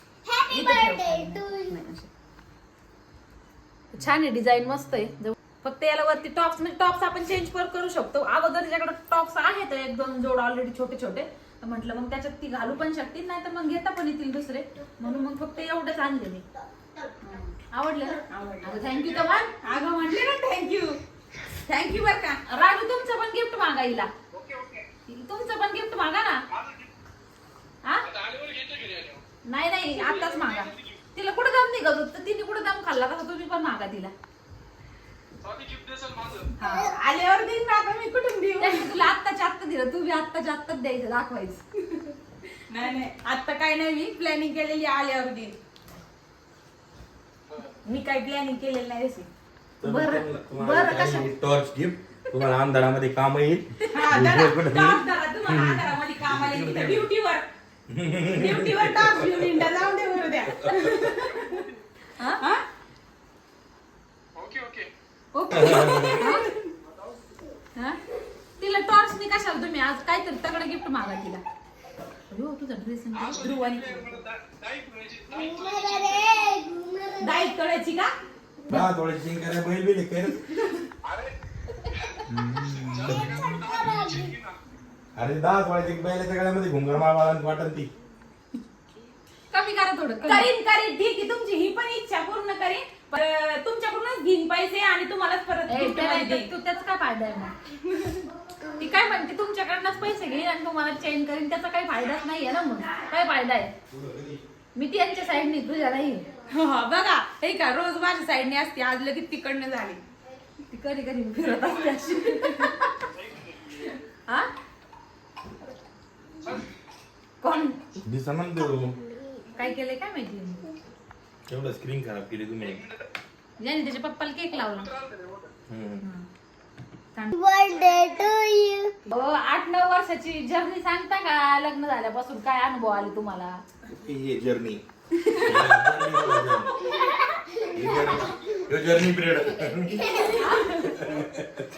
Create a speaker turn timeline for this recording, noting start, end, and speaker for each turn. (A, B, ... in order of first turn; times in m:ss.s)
0:00.2-0:01.8 A
0:00.5-0:02.1 B
0:03.9-0:16.4 B
0:17.2-0:17.6 C
0:17.7-0:19.5 B
0:18.3-0:21.0 C
0:18.9-0:19.3 D
0:21.5-0:22.4 C
0:22.5-0:24.1 B
0:24.3-0:24.9 D
0:25.1-0:26.4 B
0:26.5-0:26.9 D
0:28.1-0:29.2 D
0:29.5-0:34.1 B
0:29.9-0:31.0 D
0:35.4-0:36.6 D
0:36.6-0:36.9 B
0:36.6-0:36.9 A
0:36.8-0:39.0 C
0:38.6-0:42.0 B
0:42.7-0:45.6 C
0:47.5-0:47.7 D
0:47.8-0:49.3 C
0:49.8-0:57.1 E
0:49.8-0:51.3 B
0:53.9-0:57.5 C
0:57.9-0:59.7 E
0:58.3-1:01.7 C
1:00.5-1:01.1 E
1:01.1-1:01.8 D
1:02.2-1:02.4 B
1:04.4-1:04.9 D
1:05.3-1:06.5 B
1:05.5-1:06.2 E
1:05.7-1:06.6 C
1:06.8-1:07.3 D
1:08.6-1:11.4 B
1:12.3-1:13.5 B
1:13.1-1:16.5 D
1:13.4-1:14.2 C
1:15.3-1:17.5 A
1:17.2-1:18.1 C
1:18.7-1:20.5 E
1:21.0-1:21.4 D
1:21.9-1:24.6 D
1:22.3-1:23.6 E
1:23.6-1:24.3 A
1:25.2-1:27.9 E
1:29.5-1:30.5 B
1:30.3-1:36.5 C
1:35.7-1:37.5 B
1:37.7-1:38.3 C
1:38.5-1:38.8 A
1:38.8-1:43.7 B
1:43.9-1:44.4 E
1:44.8-1:46.3 B
1:46.4-1:50.0 C
1:50.7-1:53.1 B
1:51.4-1:52.5 D
1:53.1-1:54.0 D
1:56.4-1:56.7 D
1:58.0-1:59.0 E
1:59.0-1:59.5 A
1:59.5-2:00.8 B
2:01.5-2:02.8 E
2:02.6-2:03.1 D
2:03.6-2:04.9 B
2:04.6-2:05.5 D
2:05.7-2:06.0 E
2:06.0-2:06.3 B
2:07.3-2:09.0 A
2:07.7-2:08.3 D
2:09.1-2:13.6 B
2:13.9-2:14.8 E
2:15.2-2:15.9 C
2:15.4-2:16.8 E
2:16.8-2:18.5 A
2:17.5-2:18.6 D
2:17.6-2:21.7 E
2:19.8-2:20.9 A
2:20.2-2:20.9 B
2:21.0-2:21.4 D